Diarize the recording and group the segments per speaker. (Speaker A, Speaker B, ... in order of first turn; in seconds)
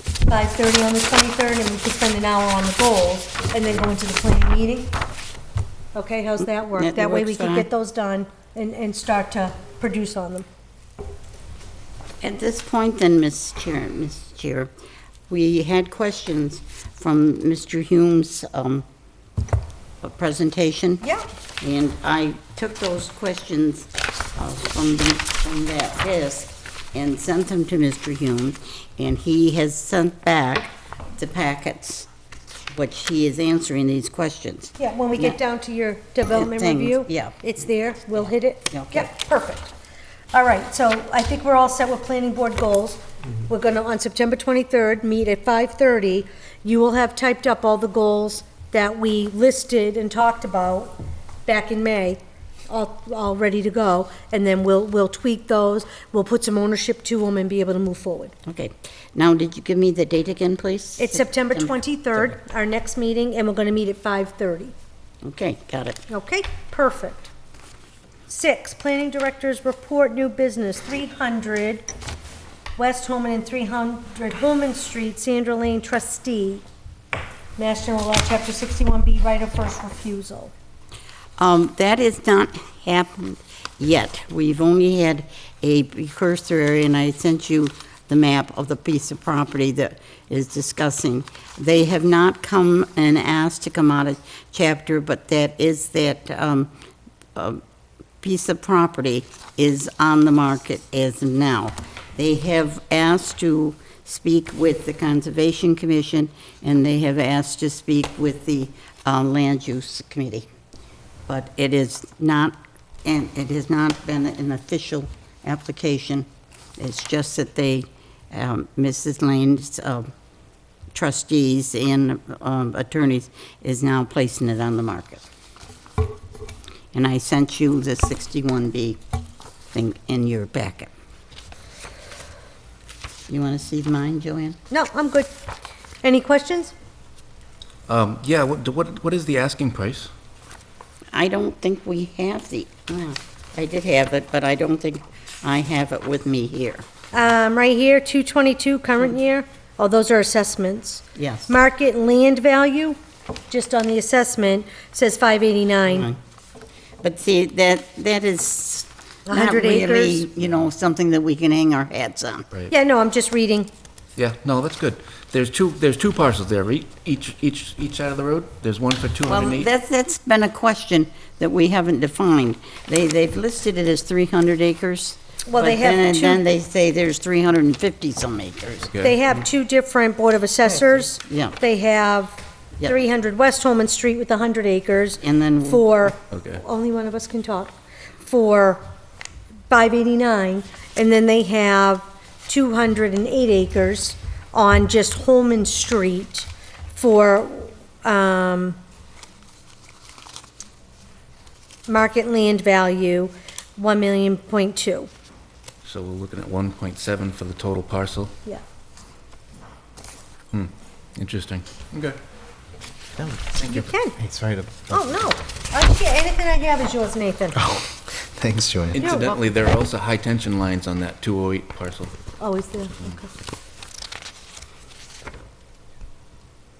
Speaker A: 0.2-4.9, 5.9-10.5, 34.8-39.7, 40.3-58.3, 61.0-64.7, 66.1-67.3, 68.3-71.9, 72.8-76.6, 77.6-80.5, 134.7-135.3, 136.0-136.7, 147.1-153.0, 153.5-156.1, 159.3-160.2, 162.7-163.7, 175.4-176.4, 179.0-188.8, 189.7-198.8, 201.9-205.1, 213.7-214.2, 214.9-217.6, 219.0-219.4, 222.4-223.3
Speaker B: 6.7-7.7, 12.2-14.7, 15.3-18.8, 20.0-21.0, 21.6-32.1, 32.7-35.4, 36.3-37.3, 38.1-39.1, 58.5-61.7, 65.2-66.0, 81.4-96.7, 97.3-97.6, 98.2-110.5, 111.3-116.3, 116.8-120.1, 120.9-125.2, 126.9-129.0, 129.7-130.9, 133.3-134.6, 141.1-146.8, 151.2-151.5, 155.9-156.2, 157.0-162.5, 169.2-178.9, 180.7-181.6, 185.2-185.9
Speaker C: 137.9-140.1, 164.2-169.7, 178.9-179.1, 186.3-186.6, 205.8-208.3, 210.5-212.2, 213.5-213.9, 218.9-222.2
Speaker D: 213.2-213.5, 214.2-215.1, 217.6-219.1